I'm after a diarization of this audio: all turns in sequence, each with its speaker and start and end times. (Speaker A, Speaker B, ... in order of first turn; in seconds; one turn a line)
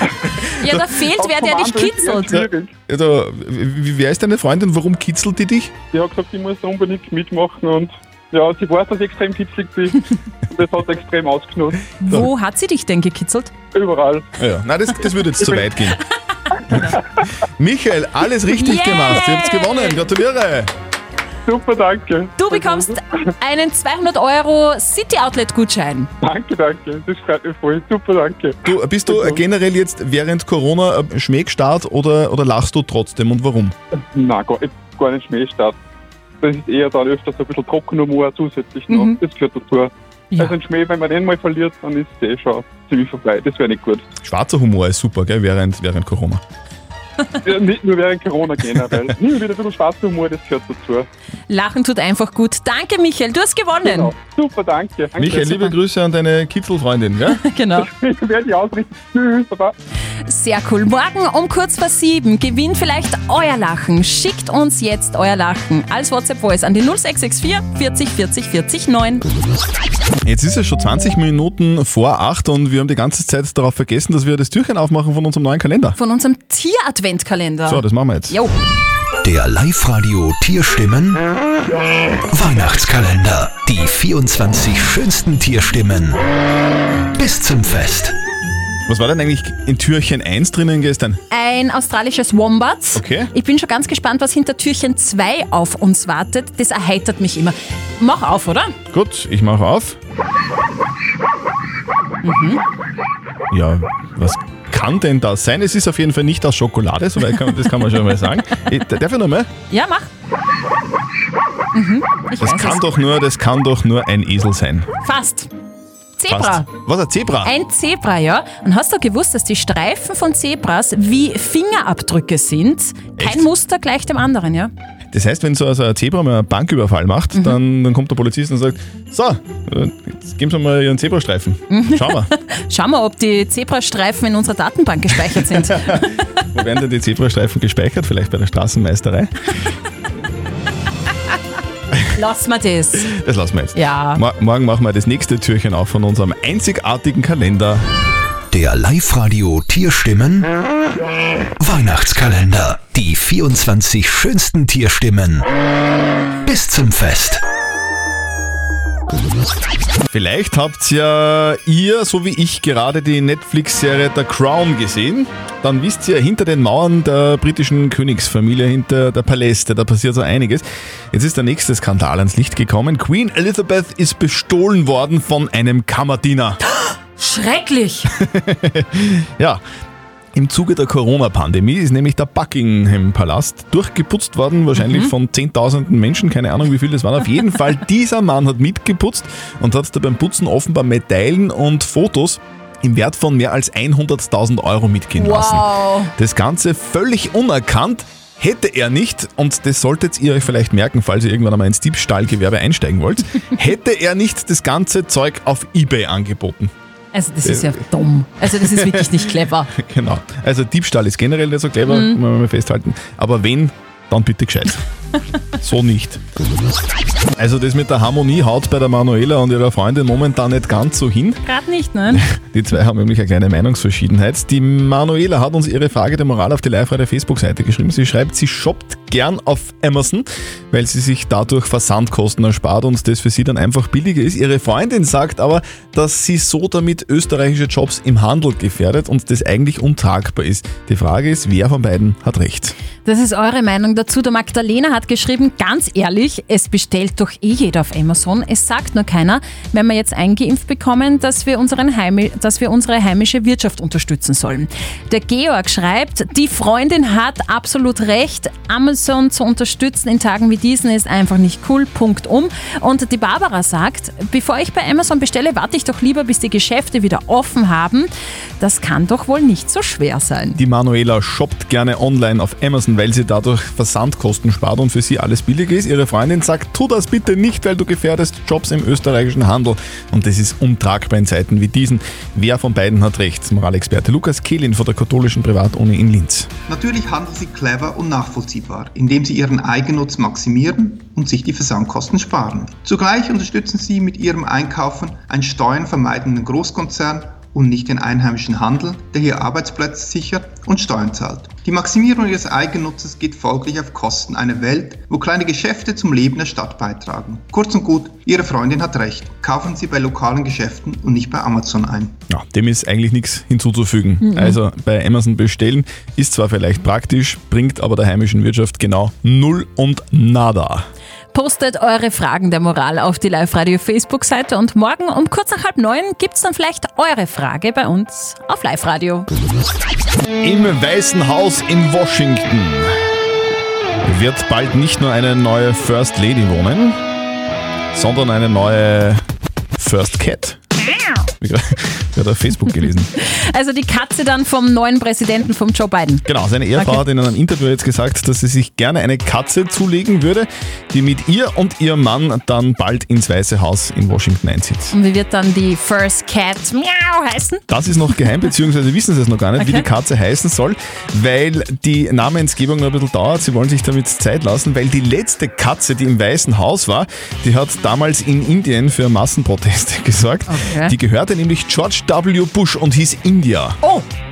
Speaker A: 0.6-2.5
Speaker B: 1.2-2.7
Speaker C: 2.3-5.7
Speaker B: 5.9-10.0
Speaker B: 10.5-11.8
Speaker A: 12.0-13.5
Speaker B: 13.8-14.2
Speaker C: 14.4-16.0
Speaker C: 16.7-17.0
Speaker C: 17.6-20.7
Speaker A: 18.5-20.0
Speaker B: 21.5-22.9
Speaker A: 22.4-26.1
Speaker B: 26.2-28.6
Speaker C: 28.6-33.8
Speaker B: 29.1-29.4
Speaker B: 34.2-35.8
Speaker B: 36.4-39.9
Speaker A: 38.9-39.2
Speaker B: 40.4-44.0
Speaker C: 44.2-46.4
Speaker B: 47.5-51.1
Speaker A: 51.5-54.1
Speaker B: 53.8-55.6
Speaker C: 55.2-57.4
Speaker A: 57.3-57.9
Speaker B: 57.8-59.8
Speaker A: 60.2-69.2
Speaker C: 70.2-76.0
Speaker A: 76.0-78.5
Speaker C: 77.7-78.4
Speaker D: 79.2-81.2
Speaker D: 82.3-86.2
Speaker D: 87.1-88.2
Speaker C: 88.9-91.2
Speaker A: 91.3-98.8
Speaker C: 93.0-93.3
Speaker C: 98.9-100.0
Speaker A: 102.2-102.6
Speaker C: 103.5-109.5
Speaker A: 109.7-110.1
Speaker A: 111.7-112.8
Speaker C: 112.4-114.9
Speaker A: 115.0-115.5
Speaker A: 116.2-116.7
Speaker C: 116.3-117.5
Speaker A: 117.4-124.7
Speaker C: 123.2-123.5
Speaker C: 125.1-132.3
Speaker A: 131.7-136.1
Speaker C: 135.7-139.3
Speaker A: 142.2-143.1
Speaker C: 143.1-147.8
Speaker A: 143.7-144.2
Speaker D: 148.5-150.5
Speaker D: 151.6-155.5
Speaker D: 156.4-157.4
Speaker C: 160.1-176.6
Speaker A: 176.9-178.1
Speaker C: 178.2-179.6
Speaker C: 180.3-206.7
Speaker A: 184.8-185.1
Speaker A: 195.2-196.1
Speaker A: 207.1-209.7
Speaker C: 207.4-207.8
Speaker C: 208.6-209.2
Speaker C: 209.8-214.8
Speaker A: 211.9-212.2
Speaker C: 215.6-216.2
Speaker C: 217.4-221.4
Speaker A: 221.4-222.2
Speaker C: 222.1-242.8
Speaker A: 243.0-270.6
Speaker C: 270.6-286.5
Speaker E: 286.7-312.1
Speaker C: 312.3-320.9
Speaker A: 314.2-314.6
Speaker A: 321.3-329.3
Speaker C: 330.4-333.0
Speaker C: 334.0-337.0
Speaker C: 337.9-339.2
Speaker C: 339.8-340.6
Speaker C: 341.4-343.1
Speaker A: 343.2-347.0
Speaker C: 346.2-354.9
Speaker A: 354.9-357.6
Speaker C: 357.7-373.8
Speaker A: 359.6-359.9
Speaker A: 370.5-370.9